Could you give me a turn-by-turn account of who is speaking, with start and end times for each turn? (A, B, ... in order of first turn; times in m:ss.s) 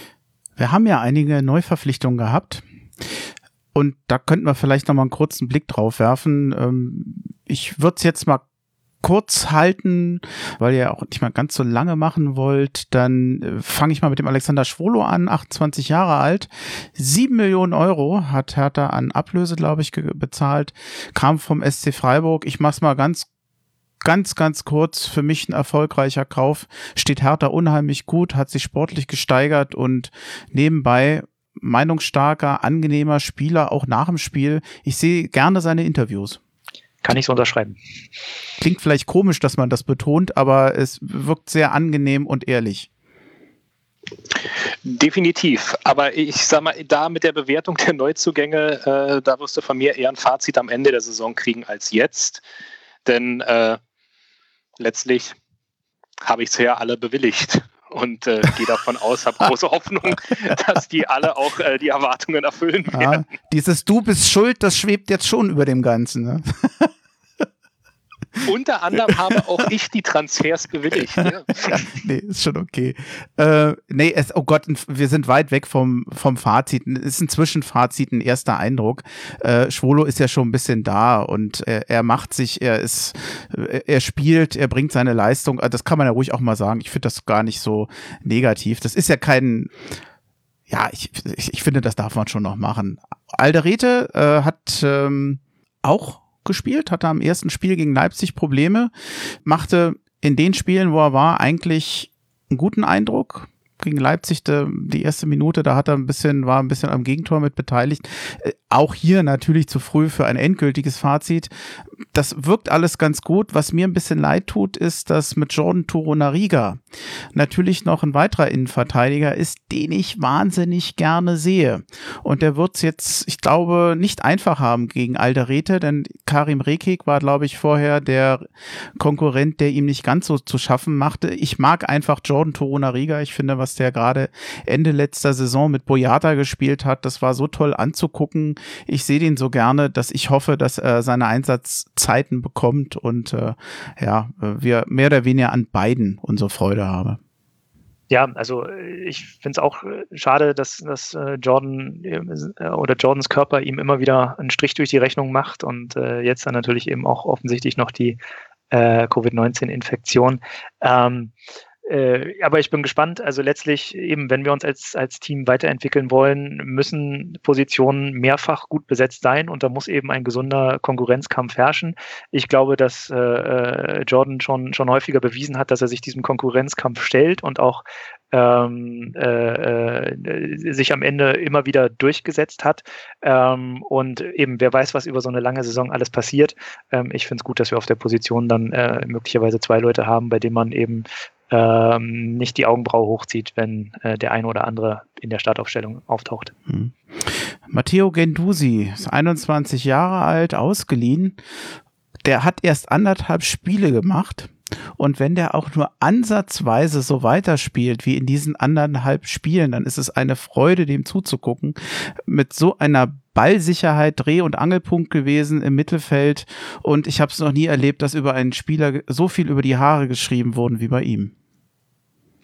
0:00.6-0:02.6 A
0:03.7-0:08.4 A
0:09.0-0:23.3 A
0:24.0-0:36.4 A
0:37.0-0:37.8 B
0:38.6-0:42.9 A
0:44.8-0:52.4 C
0:53.0-0:53.8 C
0:54.8-0:55.4 C
0:56.2-1:03.2 C
1:02.9-1:06.9 A
1:08.4-1:11.9 C
1:09.1-1:09.4 A
1:11.2-1:29.7 A
1:30.7-1:38.9 A
1:39.4-1:51.5 A
1:52.1-1:56.8 A
1:57.3-2:08.4 A
2:09.0-2:27.2 A
2:28.1-2:38.2 B
2:38.7-2:41.3 B
2:41.8-3:16.5 B
3:16.7-3:21.4 A
3:22.2-3:41.3 A